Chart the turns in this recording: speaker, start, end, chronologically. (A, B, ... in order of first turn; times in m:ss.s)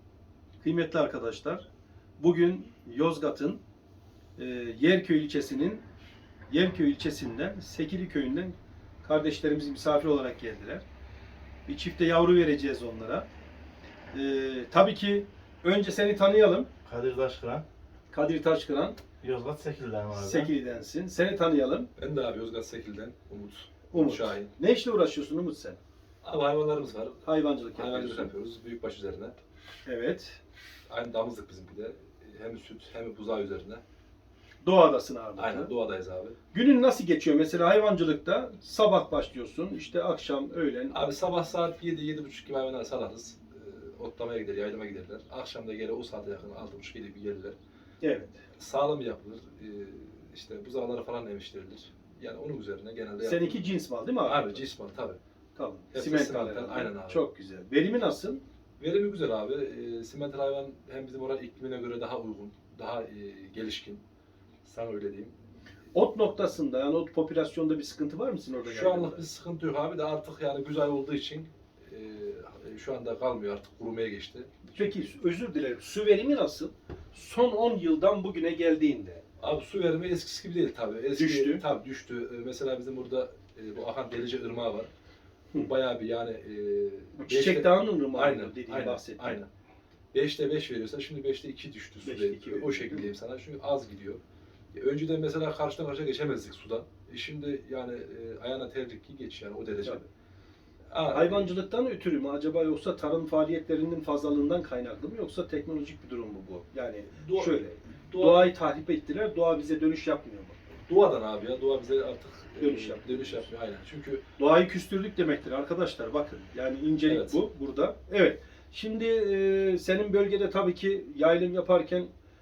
0:00.6-0:01.6 A
0:02.2-0:03.6 A
0:04.4-0:05.8 A
0:06.5-0:10.8 A
0:11.6-0:13.2 A
0:14.1-0:16.7 A
0:16.8-0:17.6 B
0:18.1-0:19.0 A
0:19.2-0:20.5 B
0:20.1-0:21.9 A
0:22.0-0:24.5 C
0:23.9-0:25.8 A
0:26.2-0:29.4 C
0:27.2-0:28.3 A
0:29.8-0:30.4 A
0:30.9-0:33.8 C
0:34.6-0:35.7 A
0:35.4-0:36.4 C
0:36.5-0:41.0 A
0:40.9-0:47.6 C
0:48.0-0:48.4 A
0:48.6-0:53.6 C
0:53.2-0:54.6 A
0:54.2-0:55.2 C
0:55.5-0:58.4 A
0:55.9-0:57.2 C
0:58.8-1:04.0 C
1:04.6-1:05.3 C
1:05.9-1:09.3 A
1:08.6-1:14.7 C
1:14.6-1:19.2 A
1:19.4-1:24.9 C
1:21.1-1:21.6 A
1:25.6-1:29.5 C
1:27.2-1:29.4 A
1:30.1-1:34.2 C
1:32.0-1:33.1 A
1:34.7-1:40.0 C
1:40.9-1:41.5 C
1:41.1-1:50.6 A
1:47.1-1:48.5 C
1:50.9-1:54.2 C
1:52.6-1:53.5 A
1:54.4-2:02.1 A
1:57.0-1:57.4 C